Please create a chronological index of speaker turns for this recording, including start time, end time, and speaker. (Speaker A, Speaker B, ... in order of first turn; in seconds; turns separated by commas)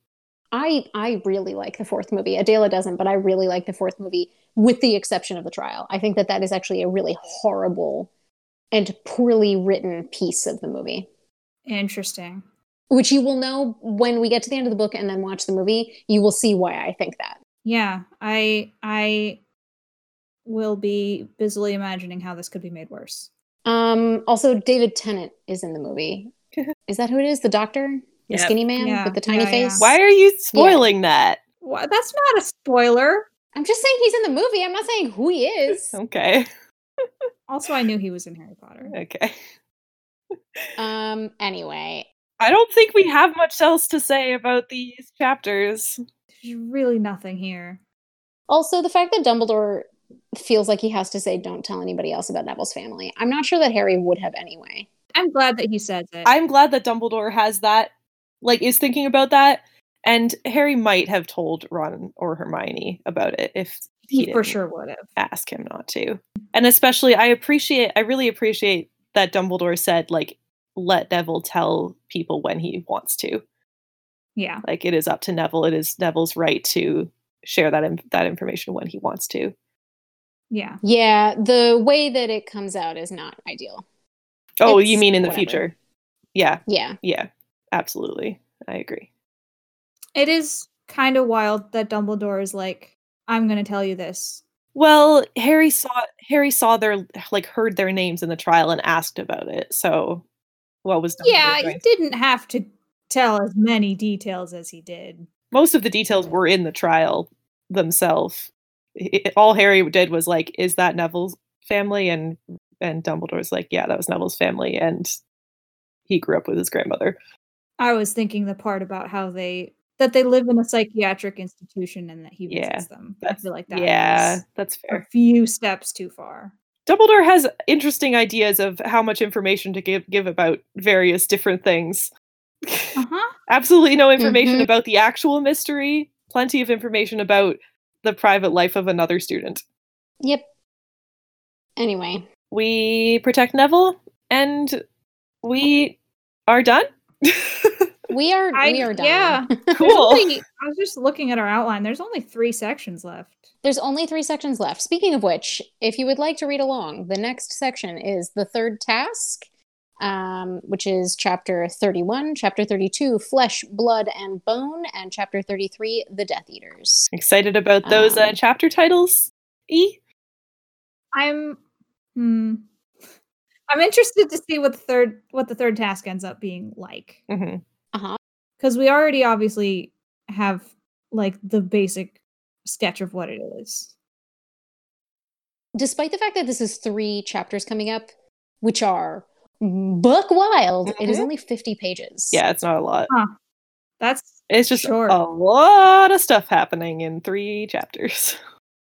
Speaker A: 0.5-8.1, Speaker A: 8.7-11.1, Speaker B: 11.7-12.4, Speaker A: 12.9-17.4, Speaker B: 17.6-19.4, Speaker B: 20.4-23.3, Speaker A: 23.6-26.3, Speaker A: 26.9-29.9, Speaker C: 28.3-28.5, Speaker B: 28.8-29.9, Speaker C: 29.8-31.4, Speaker A: 30.5-30.9, Speaker B: 31.6-33.2, Speaker A: 33.5-35.9, Speaker C: 35.9-36.5, Speaker B: 37.5-38.9, Speaker C: 38.8-39.4, Speaker A: 40.8-42.1, Speaker C: 42.4-46.0, Speaker B: 46.4-47.8, Speaker A: 48.5-54.9, Speaker B: 55.1-56.3, Speaker C: 56.2-57.9, Speaker C: 58.4-64.5, Speaker B: 64.1-65.1, Speaker C: 65.2-73.4, Speaker B: 74.3-74.6, Speaker C: 74.6-79.5, Speaker B: 80.5-80.8, Speaker A: 80.8-83.8, Speaker C: 84.6-85.7, Speaker A: 84.7-85.6, Speaker C: 86.3-89.1, Speaker A: 86.7-87.0, Speaker B: 90.1-94.4, Speaker C: 94.7-100.2, Speaker C: 100.8-101.8, Speaker B: 101.2-105.3, Speaker C: 105.5-115.2, Speaker C: 116.1-117.2, Speaker B: 117.8-126.5, Speaker C: 122.5-125.0, Speaker C: 126.8-132.1, Speaker C: 132.6-139.6, Speaker B: 132.9-133.3, Speaker A: 134.2-134.7, Speaker A: 140.2-140.4, Speaker A: 141.8-142.3, Speaker C: 142.5-144.8, Speaker C: 145.4-147.9, Speaker A: 148.1-149.9, Speaker B: 148.5-153.4, Speaker C: 149.7-150.3, Speaker A: 153.6-159.4, Speaker A: 160.0-167.1, Speaker C: 167.1-170.0, Speaker A: 167.8-168.4, Speaker B: 171.1-171.6, Speaker B: 172.2-172.6, Speaker B: 173.7-177.2, Speaker C: 177.3-177.6, Speaker A: 177.9-178.2, Speaker B: 178.6-183.9, Speaker A: 185.7-188.1, Speaker A: 188.6-192.4, Speaker C: 190.8-191.3, Speaker C: 192.3-193.1, Speaker B: 194.0-195.2, Speaker C: 194.5-198.4